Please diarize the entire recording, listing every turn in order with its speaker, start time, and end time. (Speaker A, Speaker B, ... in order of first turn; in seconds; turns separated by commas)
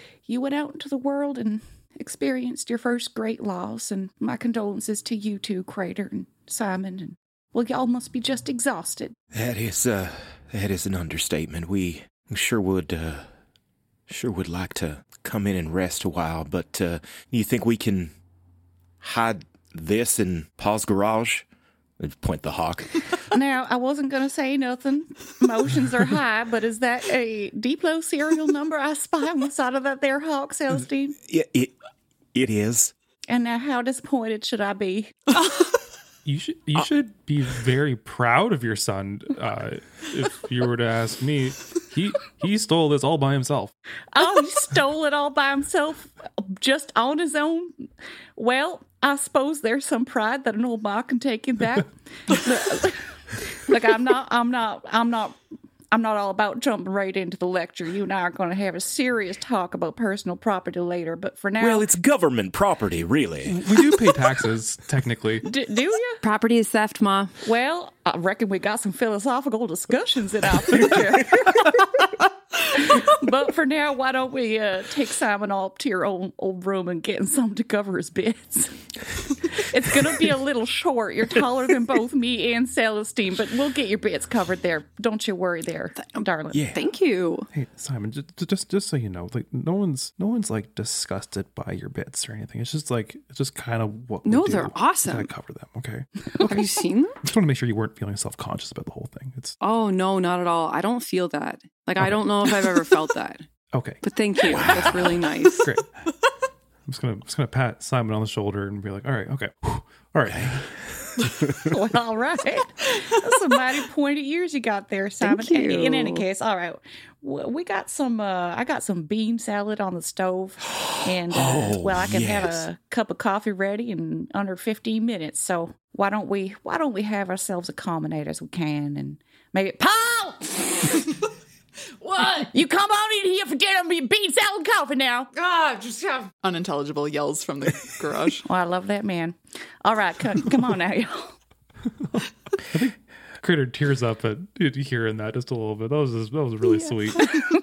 Speaker A: 0.3-9.2, Speaker B: 9.3-13.3, Speaker B: 14.1-18.1, Speaker B: 19.0-21.4, Speaker B: 22.0-23.2, Speaker A: 23.3-31.2, Speaker B: 31.3-31.7, Speaker B: 32.3-32.9, Speaker A: 33.3-35.2, Speaker C: 36.2-43.7, Speaker A: 44.1-47.9, Speaker A: 48.4-55.4, Speaker A: 55.9-61.9, Speaker B: 61.6-63.9, Speaker C: 63.5-65.5, Speaker A: 65.4-66.2, Speaker D: 66.2-67.4, Speaker A: 67.4-71.5, Speaker A: 72.7-78.8, Speaker A: 79.5-86.6, Speaker D: 86.0-87.5, Speaker B: 86.5-86.8, Speaker C: 87.5-99.6, Speaker D: 94.3-95.3, Speaker D: 96.5-97.2, Speaker D: 99.6-103.5, Speaker C: 102.0-102.3, Speaker C: 103.7-105.0, Speaker D: 104.0-105.7, Speaker B: 104.5-105.3, Speaker C: 105.6-105.9, Speaker C: 106.9-110.7, Speaker B: 110.3-110.6, Speaker A: 111.7-131.0, Speaker D: 115.2-116.2, Speaker B: 121.3-122.7, Speaker E: 132.0-132.4, Speaker A: 132.2-135.3, Speaker E: 135.3-138.4, Speaker A: 138.4-141.4, Speaker C: 142.7-147.3